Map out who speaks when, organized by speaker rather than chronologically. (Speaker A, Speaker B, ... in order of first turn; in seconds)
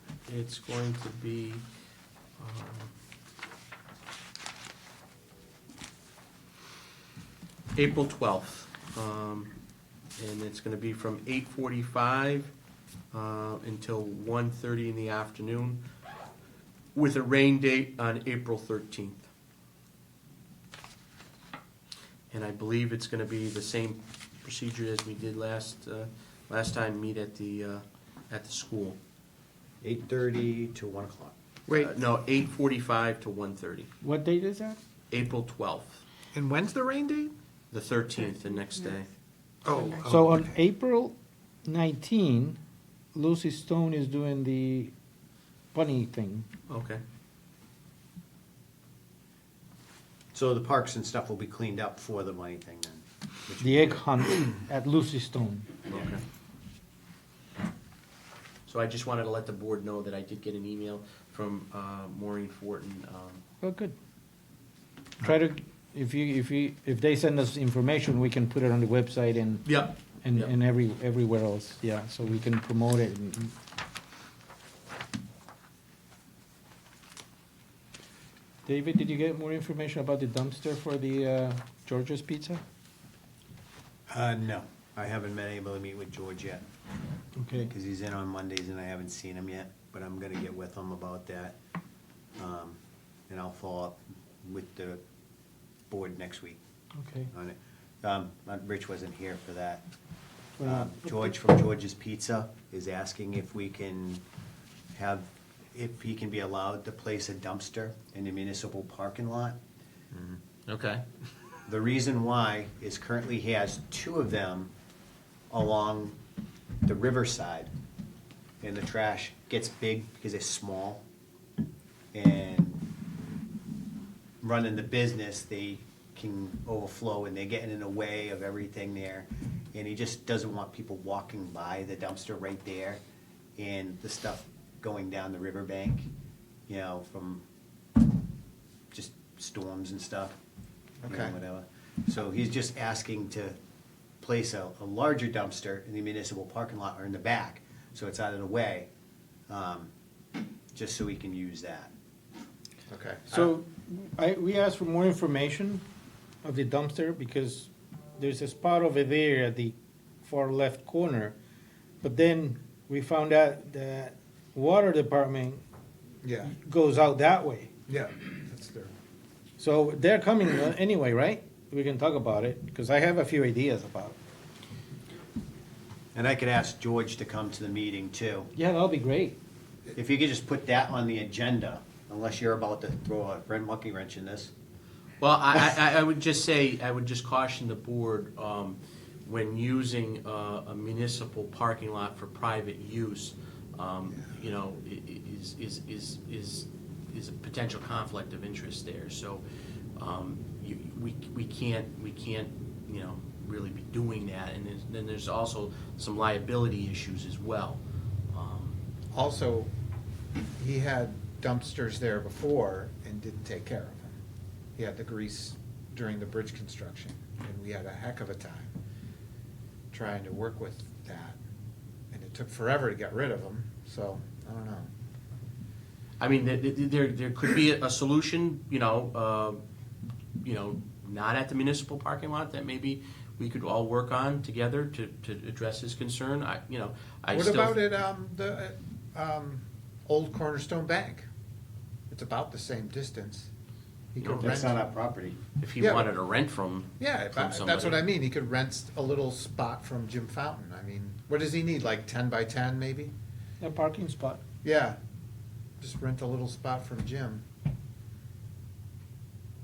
Speaker A: 0.2-1.6, 2.4-2.9, 7.8-9.5, 10.2-12.5, 13.1-15.8, 16.9-19.3, 22.3-29.0, 31.7-33.9, 35.1-36.0, 37.7-39.1, 46.7-47.0, 55.9-56.2, 58.7-63.4, 69.7-70.5, 110.2-111.0, 185.2-199.4, 200.0-208.8, 226.2-229.6, 230.4-237.8, 244.2-244.6, 245.6-248.0
Speaker B: 29.8-31.3, 50.3-54.0, 84.1-86.6, 87.6-91.5, 92.4-92.8, 93.3-95.0, 95.9-96.6, 97.3-99.8, 100.6-104.2, 105.0-109.6, 111.7-114.7, 115.5-116.2, 116.9-117.7, 118.6-121.0, 122.1-122.8, 124.4-133.0, 133.6-136.1, 136.7-137.4, 138.9-140.4, 141.1-143.6, 144.2-148.9, 149.5-149.9, 150.7-151.9, 176.1-178.5, 179.9-184.5, 244.4-245.4
Speaker C: 31.7-31.9, 36.3-37.3, 39.6-40.5, 141.0-141.3, 152.9-153.5, 166.2-166.5, 167.9-168.9, 209.1-209.7, 210.6-214.2, 214.8-218.8, 219.9-221.4, 222.1-224.9, 237.3-241.3, 242.1-243.5, 244.1-244.8, 245.8-246.1, 247.0-253.1, 254.6-255.0, 255.8-257.4
Speaker D: 34.0-34.8, 40.0-42.6, 43.1-44.9, 45.7-46.5, 53.6-55.7, 63.6-64.0, 65.2-73.5, 78.7-82.6, 87.4-87.7, 97.0-97.3, 100.6-101.3, 153.3-155.8, 156.4-161.4, 162.0-165.6, 166.4-167.7, 169.6-174.2, 178.6-179.4, 253.6-254.4